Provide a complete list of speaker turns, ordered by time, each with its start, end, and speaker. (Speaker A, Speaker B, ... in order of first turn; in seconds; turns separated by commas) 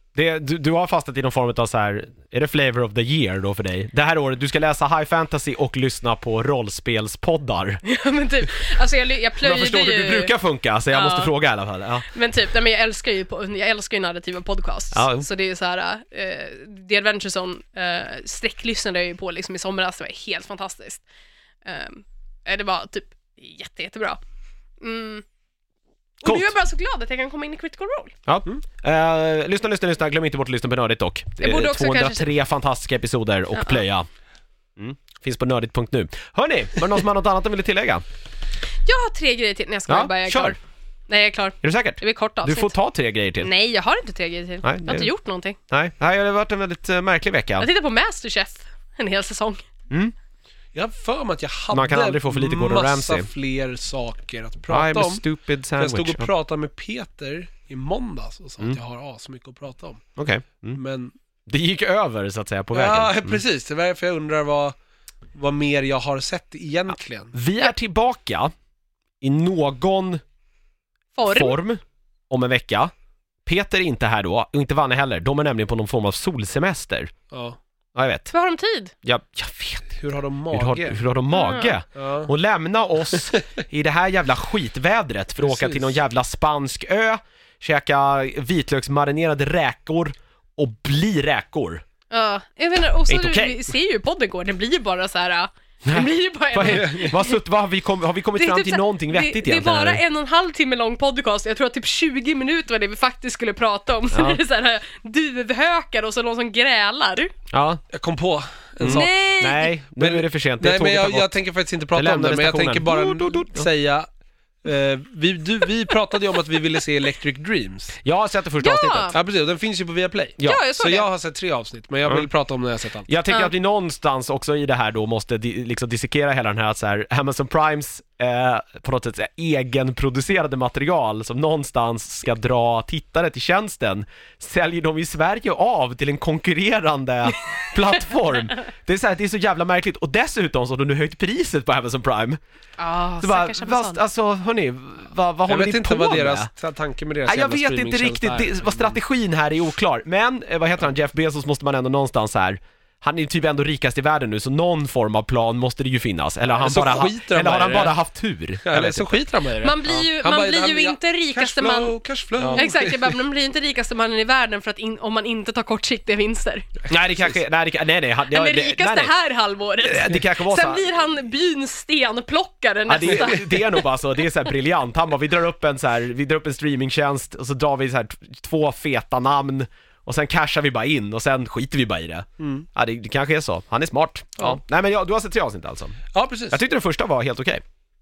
Speaker A: 0.1-7.8, Speaker B: 7.8-10.3, Speaker A: 9.4-12.1, Speaker B: 10.9-11.3, Speaker B: 12.1-21.0, Speaker A: 14.9-15.3, Speaker B: 21.6-24.2, Speaker B: 24.8-25.2, Speaker B: 26.2-28.2, Speaker A: 26.2-26.5, Speaker A: 28.3-34.1, Speaker B: 31.4-32.3, Speaker B: 33.5-33.8, Speaker A: 34.8-38.0, Speaker B: 38.9-40.6, Speaker A: 39.9-40.6, Speaker B: 41.1-42.7, Speaker A: 41.6-43.5, Speaker B: 43.4-45.6, Speaker A: 44.6-45.1, Speaker A: 45.7-47.7, Speaker B: 47.6-49.6, Speaker C: 50.8-55.2, Speaker A: 51.7-53.3, Speaker A: 54.7-56.3, Speaker C: 55.8-60.0, Speaker A: 60.2-60.8, Speaker C: 60.7-61.1, Speaker A: 61.5-63.4, Speaker C: 62.7-64.8, Speaker C: 65.3-67.4, Speaker A: 67.3-68.5, Speaker A: 69.2-70.2, Speaker B: 71.2-71.6, Speaker A: 71.3-72.9, Speaker A: 73.5-77.1, Speaker C: 77.3-77.6, Speaker A: 78.0-78.3, Speaker B: 78.3-78.9, Speaker A: 79.0-80.0, Speaker C: 79.9-81.0, Speaker A: 80.5-91.8, Speaker B: 81.3-81.8, Speaker C: 82.0-82.3, Speaker C: 85.4-86.0, Speaker B: 92.1-97.4, Speaker A: 93.1-93.6, Speaker A: 95.9-100.0, Speaker C: 96.7-97.1, Speaker B: 98.4-107.3, Speaker A: 104.1-104.4, Speaker A: 107.5-107.8, Speaker C: 107.9-109.1, Speaker A: 108.8-111.4, Speaker B: 108.9-109.7, Speaker C: 110.0-114.1, Speaker A: 112.0-113.7, Speaker C: 114.6-118.0, Speaker A: 118.0-119.2, Speaker B: 118.6-119.2, Speaker C: 119.1-123.1, Speaker B: 120.4-121.1, Speaker A: 123.1-142.4, Speaker B: 123.3-123.5, Speaker B: 142.8-144.0, Speaker A: 143.2-146.5, Speaker C: 145.5-149.0, Speaker A: 147.3-159.2, Speaker C: 156.5-158.0, Speaker C: 158.6-163.2, Speaker B: 159.6-161.9, Speaker A: 162.4-162.6, Speaker B: 162.6-166.7, Speaker C: 166.8-167.4, Speaker A: 166.9-169.1, Speaker B: 168.3-173.9, Speaker A: 169.8-170.8, Speaker A: 172.9-187.6, Speaker C: 173.0-173.4, Speaker C: 182.4-182.7, Speaker C: 186.1-186.6